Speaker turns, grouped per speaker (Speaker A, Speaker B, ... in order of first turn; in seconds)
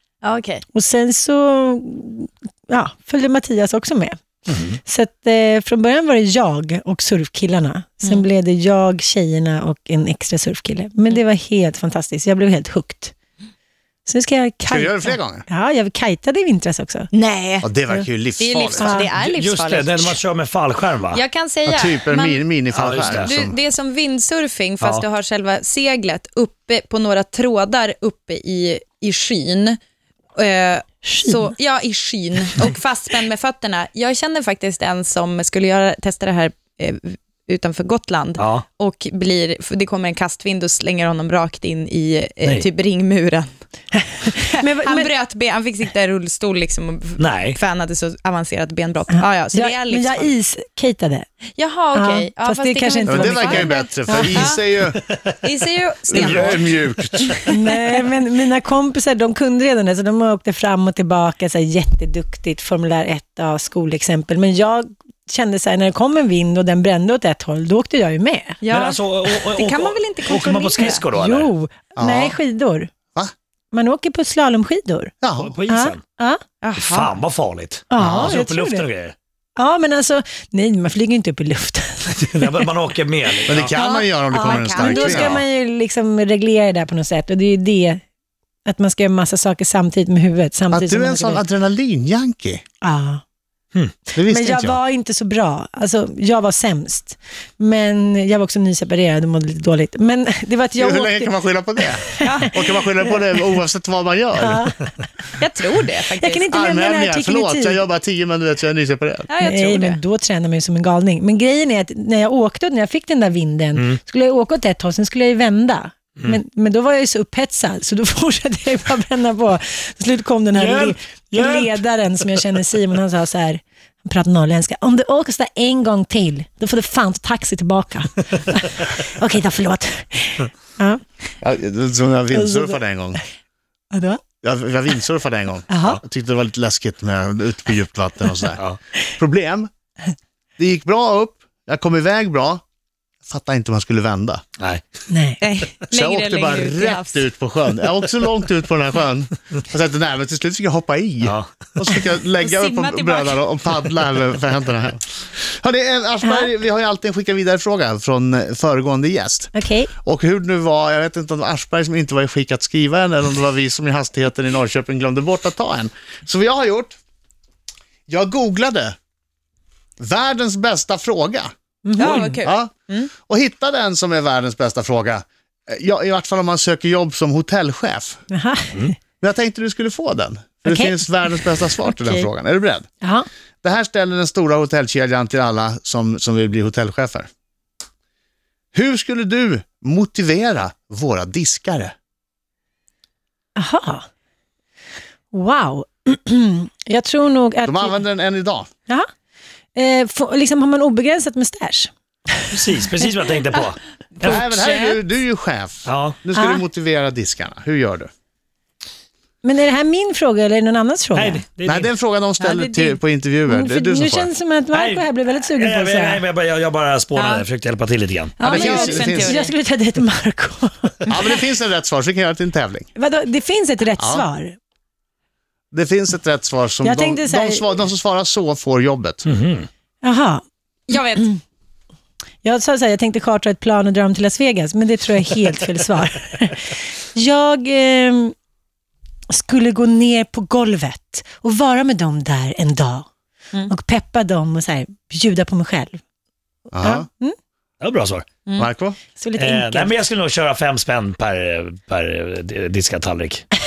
Speaker A: 0.2-0.6, 17.1-17.7, 18.4-20.2, 21.1-22.4, 23.1-29.8, 30.4-43.5, 44.3-50.3, 51.6-54.6, 55.4-57.5, 68.6-71.0, 76.6-77.2, 83.7-85.3, 102.2-102.5, 105.4-106.5, 109.3-110.0, 145.4-147.2, 152.4-153.4, 172.0-173.1, 181.8-182.3, 212.4-213.0, 217.2-217.5, 218.4-219.5, 230.9-231.3
Speaker B: 0.7-4.2, 4.8-13.1, 14.1-17.1, 18.8-19.1, 31.1-31.4, 44.0-45.1, 49.1-51.3, 51.9-54.5, 57.5-68.6, 70.8-72.9, 73.7-75.1, 75.7-76.4, 77.9-78.9, 79.6-82.7, 84.3-88.0, 88.7-91.4, 92.8-93.2, 94.2-102.4, 104.4-104.9, 106.2-107.8, 109.4-131.0, 132.3-132.8, 133.9-134.2, 135.7-136.0, 145.1-145.4, 159.5-159.9, 171.8-172.4, 178.3-179.0, 180.7-181.0, 183.0-183.3, 193.6-194.1, 195.3-198.0, 199.8-202.5, 206.3-206.6, 209.4-211.4, 213.5-216.2, 218.4-221.4, 223.0-224.6, 226.8-227.7, 230.0-230.4, 232.4-238.3, 239.3-243.1, 243.7-246.0, 246.8-247.4, 249.2-250.0
Speaker C: 4.5-4.8, 19.2-21.2, 22.7-23.3, 38.4-38.6, 47.2-47.6, 56.1-56.6, 68.7-71.5, 75.4-76.0, 76.8-79.2, 82.2-83.8, 120.5-121.8, 151.2-151.6, 202.5-204.7, 205.9-206.2, 211.2-211.9, 214.7-218.4, 229.3-229.7, 247.8-248.2, 249.4-253.4
Speaker D: 14.7-15.4, 17.6-19.0, 21.7-23.6, 53.1-55.0, 56.1-57.4, 72.0-72.4, 75.2-75.5, 78.0-78.4, 83.5-85.4, 90.7-92.6, 94.1-94.8, 100.8-104.6, 106.5-109.3, 131.4-133.2, 134.4-138.6, 139.2-139.7, 140.6-142.6, 143.2-144.4, 145.9-159.5, 160.0-167.0, 168.1-169.0, 170.0-171.5, 172.4-172.7, 173.2-178.2, 179.2-182.9, 183.6-187.3, 188.7-191.9, 197.6-198.7, 204.2-208.1, 211.7-214.3, 218.4-219.4, 221.1-222.9, 224.0-224.3, 225.7-229.2, 246.7-247.1, 248.6-249.0